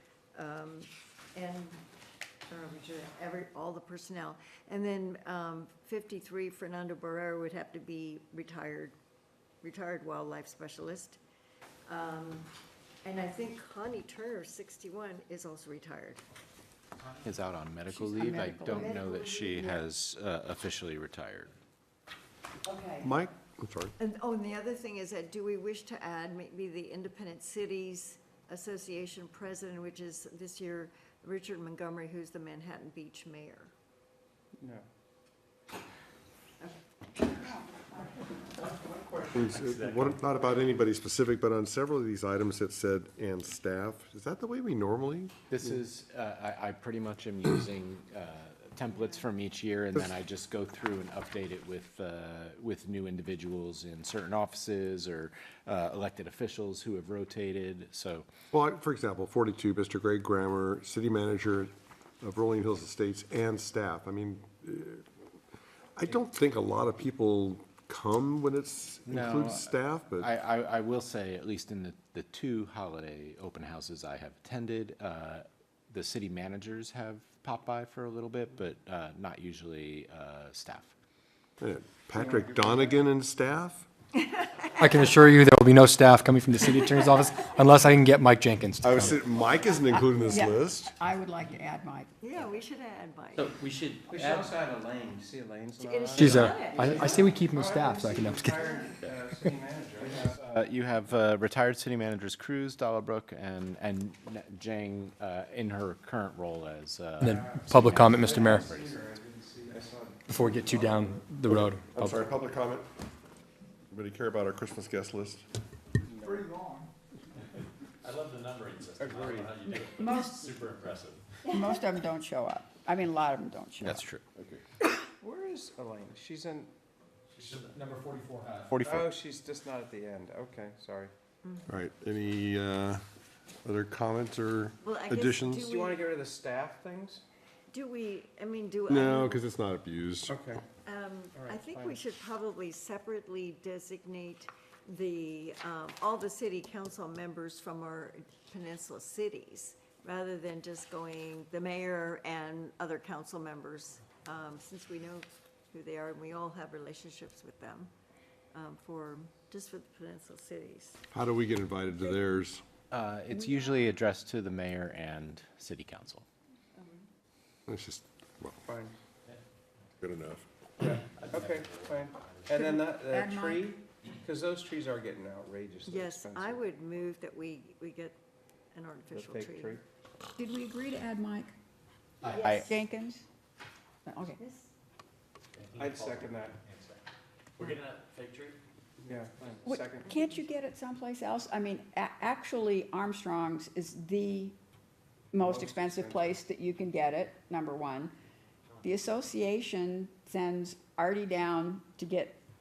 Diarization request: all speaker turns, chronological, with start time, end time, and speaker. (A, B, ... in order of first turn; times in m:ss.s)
0:00.4-0:01.8 A
0:02.5-0:09.0 A
0:09.6-0:11.2 A
0:11.9-0:12.5 A
0:13.0-0:16.2 A
0:17.2-0:21.5 B
0:17.9-0:19.0 C
0:18.6-0:19.8 A
0:22.6-0:23.2 A
0:23.0-0:24.0 D
0:24.0-0:33.7 A
0:34.6-0:34.8 E
0:39.3-0:45.3 D
0:39.4-0:40.0 B
0:45.5-0:58.3 B
0:58.5-1:05.1 D
1:06.0-1:10.3 D
1:09.1-1:20.9 B
1:21.6-1:23.9 D
1:22.1-1:23.0 E
1:24.2-1:25.1 A
1:24.8-1:29.2 F
1:26.8-1:27.4 A
1:28.8-1:30.9 D
1:29.9-1:32.1 C
1:32.2-1:33.6 A
1:34.1-1:40.4 E
1:35.8-1:37.5 A
1:36.1-1:38.6 F
1:40.3-1:49.0 B
1:47.2-1:48.7 F
1:47.2-1:51.3 E
1:50.3-1:52.2 F
1:51.5-1:52.9 D
1:53.9-1:55.4 D
1:56.0-1:56.6 E
1:58.1-1:59.5 B
1:58.6-2:01.0 G
1:59.0-1:59.7 E
1:59.6-2:00.5 C
2:00.4-2:01.2 B
2:01.4-2:01.8 A
2:01.5-2:04.0 C
2:03.8-2:04.6 B
2:05.2-2:06.7 E
2:07.5-2:07.9 G
2:07.9-2:08.4 F
2:08.4-2:09.1 B
2:08.8-2:11.1 E
2:11.4-2:11.7 A
2:11.7-2:13.0 D
2:13.6-2:15.7 D
2:14.8-2:16.1 A
2:15.6-2:17.2 E
2:17.7-2:19.4 A
2:18.9-2:20.4 D
2:20.3-2:20.6 E
2:20.8-2:37.9 A
2:21.3-2:22.0 E
2:38.5-2:41.0 A
2:41.1-2:42.6 D
2:42.9-2:46.3 B
2:43.3-2:43.7 C
2:46.8-2:47.1 A
2:47.7-2:48.6 D
2:48.7-2:49.0 E
2:50.0-2:50.5 D
2:50.8-2:56.7 E
2:51.2-2:51.9 G
2:52.6-2:53.7 C
2:55.9-2:58.2 A
2:58.7-2:59.8 A
2:59.1-2:59.8 E
3:00.4-3:01.5 C
3:02.2-3:02.7 B
3:02.3-3:02.7 A
3:02.5-3:03.3 C
3:04.1-3:04.4 C
3:04.3-3:04.7 A
3:05.6-3:06.4 G
3:05.8-3:06.6 E
3:07.6-3:08.6 G
3:09.0-3:10.4 E
3:09.6-3:14.6 C
3:15.3-3:18.1 C
3:15.4-3:16.4 E
3:18.8-3:22.4 C